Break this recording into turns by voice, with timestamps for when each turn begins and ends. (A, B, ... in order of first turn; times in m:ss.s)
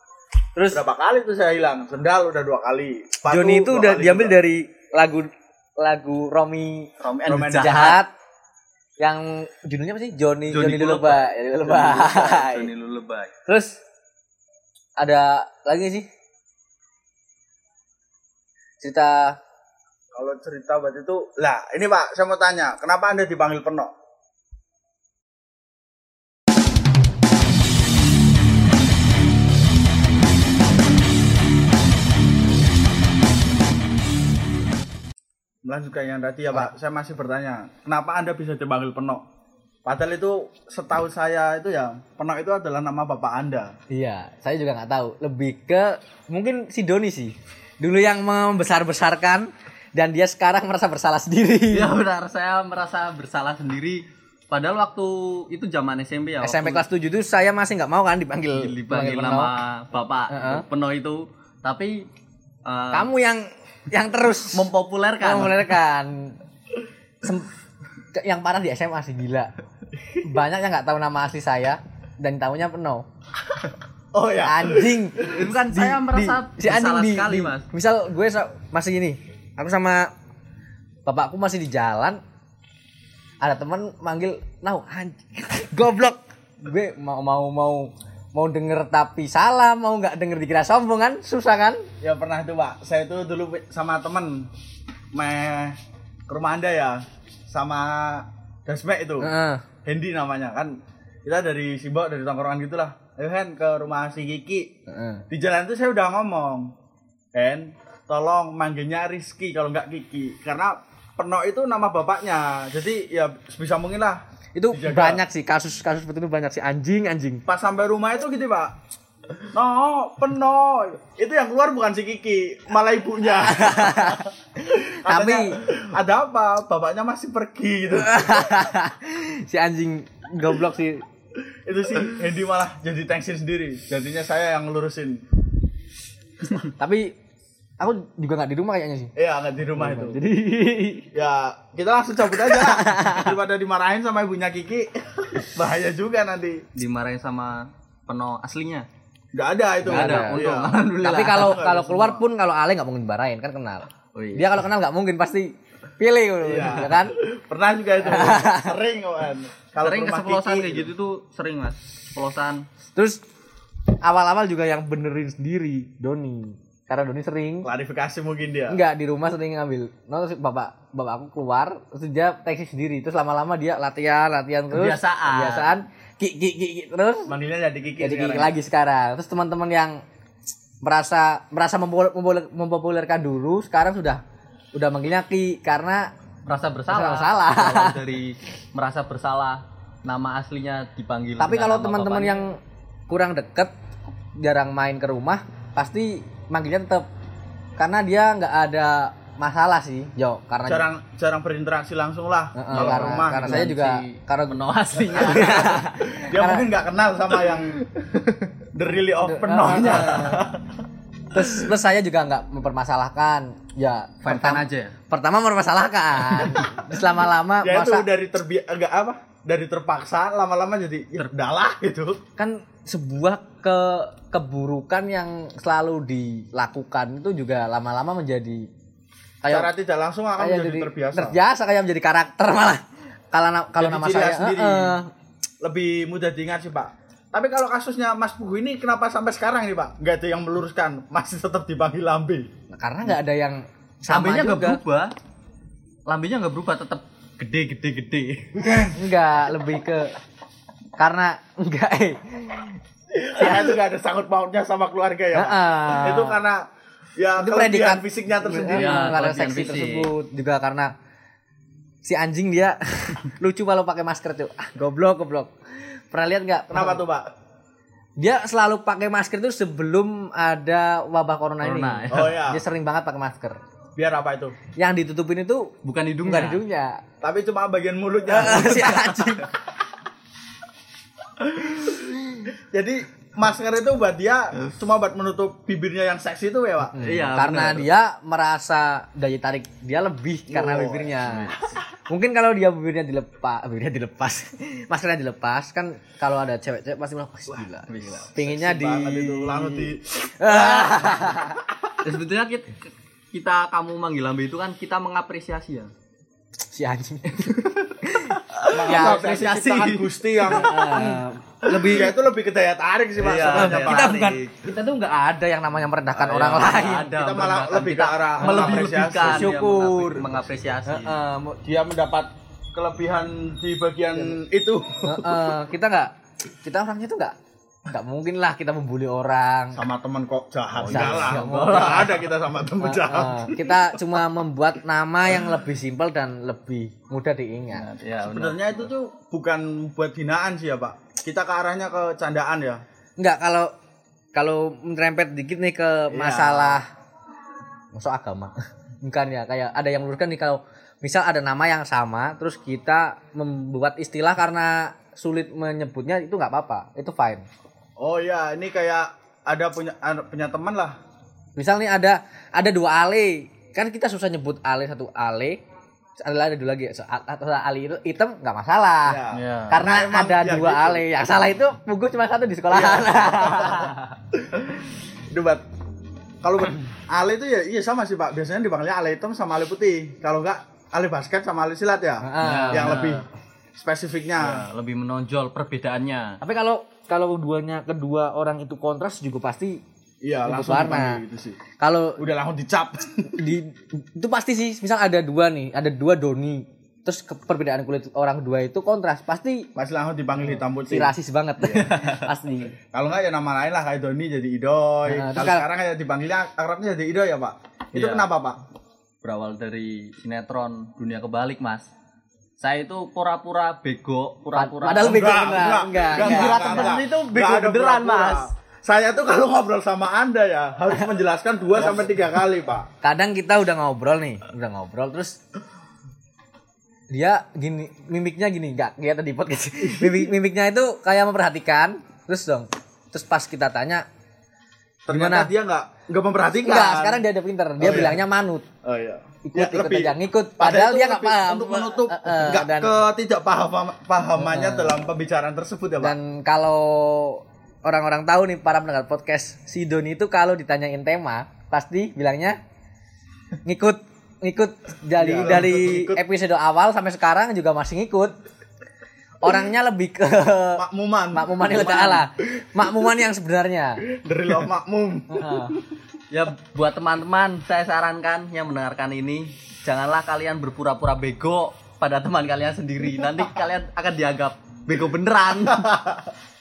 0:00.6-0:00.8 A
0:00.7-0:04.4 B
0:03.3-0:06.9 A
0:07.0-0:08.0 C
0:07.3-0:08.0 B
0:07.6-0:08.1 A
0:09.0-0:12.7 A
0:10.5-0:13.3 C
0:13.5-0:13.8 A
0:15.0-0:16.1 A
0:18.8-0:19.4 A
0:20.1-0:23.9 B
0:35.6-0:39.2 B
0:39.8-0:43.7 B
0:43.9-0:52.0 A
0:51.7-0:56.8 C
0:56.4-0:59.5 A
0:58.5-1:02.1 C
1:00.3-1:00.6 A
1:02.6-1:03.1 C
1:02.9-1:04.7 A
1:04.5-1:05.7 C
1:05.2-1:06.4 A
1:07.2-1:07.5 A
1:08.2-1:09.5 A
1:10.2-1:13.1 A
1:14.1-1:15.5 B
1:14.4-1:20.1 A
1:15.3-1:17.7 C
1:21.1-1:22.2 A
1:23.4-1:31.9 A
1:32.0-1:34.5 B
1:35.1-1:39.3 B
1:39.2-1:39.6 A
1:39.8-1:44.7 B
1:44.9-1:45.2 A
1:45.3-1:46.7 B
1:47.3-1:55.2 B
1:54.6-1:57.4 A
1:57.5-1:58.8 B
1:59.4-2:08.7 B
2:03.5-2:04.3 A
2:04.8-2:05.6 A
2:08.0-2:11.0 A
2:11.5-2:15.2 B
2:16.8-2:17.1 A
2:17.8-2:19.1 A
2:19.2-2:20.2 B
2:19.8-2:21.1 A
2:21.1-2:26.6 B
2:22.5-2:23.3 A
2:26.8-2:28.9 C
2:29.3-2:32.3 B
2:29.8-2:30.4 A
2:29.9-2:31.6 C
2:31.0-2:37.2 A
2:34.2-2:34.6 C
2:36.4-2:40.9 B
2:38.0-2:38.8 A
2:39.8-2:42.6 C
2:43.0-2:43.2 A
2:44.0-2:47.7 A
2:47.6-2:48.8 B
2:48.7-2:57.3 A
2:54.7-2:55.7 C
2:57.3-2:58.6 B
2:58.0-3:00.0 A
3:00.8-3:04.2 A
3:04.7-3:06.1 A
3:06.5-3:12.4 C
3:06.9-3:08.0 A
3:11.4-3:13.7 A
3:14.4-3:17.1 A
3:17.8-3:20.8 A
3:20.7-3:23.7 B
3:22.6-3:26.7 A
3:22.7-3:25.8 C
3:26.2-3:30.7 B
3:29.2-3:30.5 A
3:31.3-3:38.1 A
3:34.2-3:35.0 C
3:37.6-3:42.2 B
3:42.4-3:48.7 A
3:49.4-3:49.7 A
3:49.5-3:51.4 B
3:50.4-3:55.1 A
3:53.8-3:55.0 B
3:55.6-4:02.5 B
4:02.7-4:04.8 A
4:04.1-4:05.1 C
4:06.1-4:08.6 C
4:08.6-4:09.0 B
4:08.9-4:10.2 A
4:11.0-4:12.8 A
4:13.1-4:16.6 B
4:13.4-4:13.7 A
4:15.3-4:16.4 A
4:17.2-4:19.1 B
4:17.4-4:20.9 A
4:18.6-4:20.1 C
4:22.0-4:27.0 A
4:26.7-4:27.3 B
4:28.2-4:33.6 A
4:31.6-4:32.4 C
4:32.1-4:32.6 B
4:34.0-4:34.6 B
4:34.8-4:37.0 A
4:35.8-4:36.6 C
4:37.2-4:39.5 B
4:38.3-4:39.5 A
4:41.4-4:47.0 B
4:46.9-5:01.6 A
4:47.0-4:47.9 C
4:50.5-4:51.6 B
4:57.9-4:58.3 C
4:58.4-5:02.0 B
5:02.0-5:05.9 C
5:06.7-5:09.3 A
5:08.4-5:11.1 C
5:08.7-5:14.2 B
5:10.5-5:12.2 A
5:13.2-5:14.5 C
5:13.5-5:17.1 A
5:16.2-5:21.2 C
5:17.0-5:19.5 B
5:18.4-5:20.3 A
5:20.9-5:21.6 A
5:21.6-5:25.6 B
5:25.0-5:27.4 A
5:27.9-5:29.8 A
5:29.7-5:34.2 B
5:30.8-5:32.2 C
5:30.9-5:32.2 A
5:32.8-5:37.8 A
5:37.7-5:38.9 C
5:38.2-5:42.8 B
5:43.2-5:43.7 A
5:44.3-5:46.9 A
5:46.1-5:46.8 B
5:48.0-5:57.5 A
5:58.0-6:01.0 B
6:01.6-6:05.6 A
6:06.2-6:14.0 A
6:09.0-6:11.0 B
6:09.3-6:09.8 C
6:12.7-6:15.6 B
6:16.4-6:23.3 B
6:22.2-6:23.2 A
6:22.4-6:23.2 C
6:23.8-6:24.7 B
6:24.4-6:26.4 C
6:26.4-6:29.8 A
6:30.2-6:31.6 B
6:30.4-6:31.2 A
6:31.8-6:32.2 A
6:32.2-6:33.4 B
6:33.3-6:39.7 A
6:39.8-6:41.1 B
6:40.8-6:42.8 A
6:41.6-6:42.2 C
6:42.9-6:48.6 B
6:45.1-6:45.7 A
6:48.0-6:48.3 C
6:49.2-6:51.9 C
6:52.6-6:55.4 C
6:54.6-6:57.0 A
6:55.0-7:02.9 B
6:56.2-6:58.5 C
7:03.0-7:05.4 A
7:07.1-7:14.0 A
7:09.8-7:10.3 B
7:15.1-7:17.2 B
7:15.1-7:15.5 A
7:16.6-7:18.7 A
7:17.8-7:18.2 B
7:18.8-7:26.2 B
7:19.4-7:22.9 A
7:24.4-7:25.0 A
7:26.0-7:32.6 A
7:33.6-7:38.3 A
7:35.2-7:36.2 B
7:39.4-7:44.0 A
7:40.8-7:42.3 B
7:44.1-7:45.8 B
7:45.3-7:45.8 A
7:46.3-7:55.9 C
7:55.8-7:56.3 B